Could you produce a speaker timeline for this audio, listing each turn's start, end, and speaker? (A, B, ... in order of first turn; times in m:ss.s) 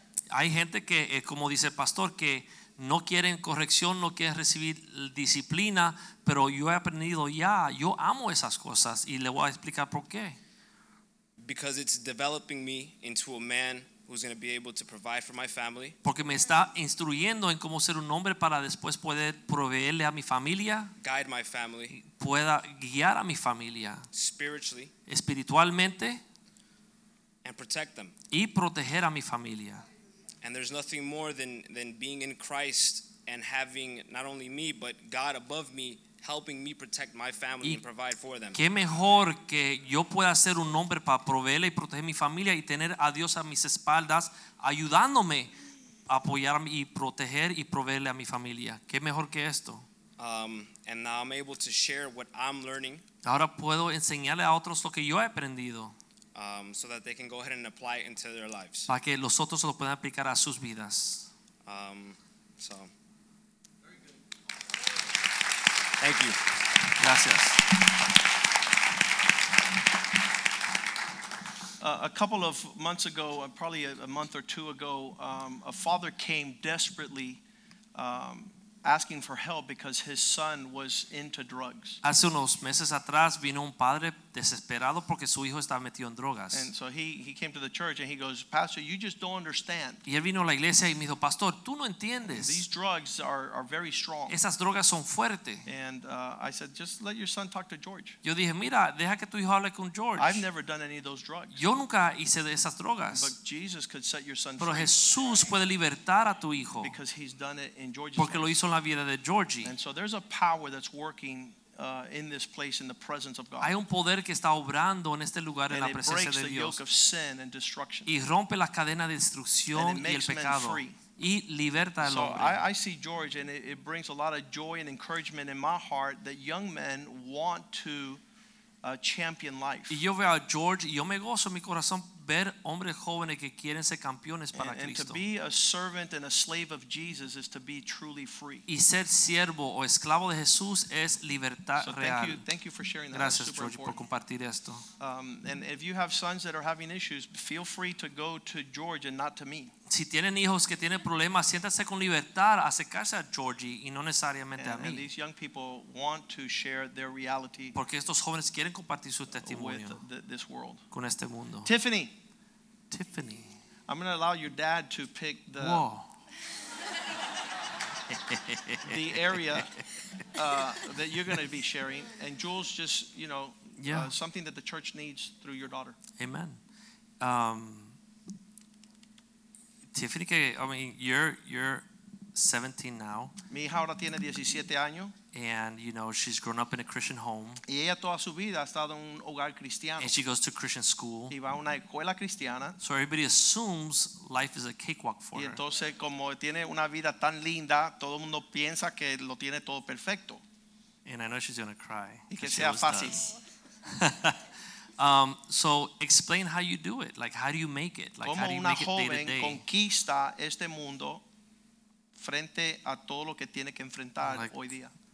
0:00.3-0:10.4 A
0:11.4-0:16.0 B
0:16.0-0:20.9 A
0:21.0-0:22.0 B
0:21.9-0:24.0 A
0:24.1-0:24.9 B
0:25.1-0:26.2 A
0:27.4-0:28.1 B
0:28.3-0:29.8 A
0:30.4-0:38.6 B
0:38.5-0:45.5 A
0:46.1-0:49.8 A
0:50.2-0:53.0 B
0:53.2-0:55.9 A
0:56.3-0:58.9 B
0:58.9-1:01.3 A
1:01.6-1:02.9 B
1:06.0-1:06.4 B
1:07.0-1:07.6 A
1:11.8-1:17.4 C
1:17.9-1:22.0 C
1:22.0-1:26.7 A
1:26.5-1:30.0 C
1:30.0-1:32.7 A
1:32.3-1:34.3 C
1:34.3-1:35.6 A
1:35.6-1:38.2 C
1:38.2-1:40.4 A
1:40.2-1:41.6 C
1:41.6-1:43.3 A
1:43.1-1:44.9 C
1:44.6-1:47.0 A
1:46.8-1:48.5 C
1:48.2-1:49.7 A
1:49.6-1:53.7 C
1:53.6-1:56.8 A
1:55.7-1:58.1 C
1:58.1-2:02.6 A
1:59.7-2:01.0 C
2:02.0-2:08.2 C
2:08.8-2:10.0 C
2:09.9-2:15.2 A
2:14.5-2:18.6 C
2:18.7-2:22.4 A
2:21.8-2:24.0 C
2:23.1-2:24.8 A
2:25.0-2:29.7 C
2:29.9-2:35.1 A
2:34.6-2:37.8 C
2:37.7-2:40.0 A
2:39.4-2:40.8 C
2:40.9-2:41.7 A
2:41.6-2:42.1 C
2:42.9-2:43.5 A
2:43.9-2:45.8 C
2:45.6-2:46.1 A
2:48.1-2:49.6 A
2:48.8-2:49.7 C
2:50.3-2:56.0 C
2:53.8-2:54.1 A
2:56.2-2:56.6 A
2:57.2-2:58.0 A
2:59.9-3:03.3 A
3:03.5-3:05.1 C
3:05.3-3:07.6 A
3:07.7-3:10.1 C
3:10.0-3:11.3 A
3:11.3-3:12.8 C
3:12.8-3:15.6 A
3:15.3-3:20.4 C
3:21.0-3:23.2 A
3:22.3-3:23.3 C
3:23.9-3:24.4 A
3:25.0-3:29.6 A
3:28.2-3:31.2 C
3:32.2-3:34.9 C
3:34.2-3:34.6 A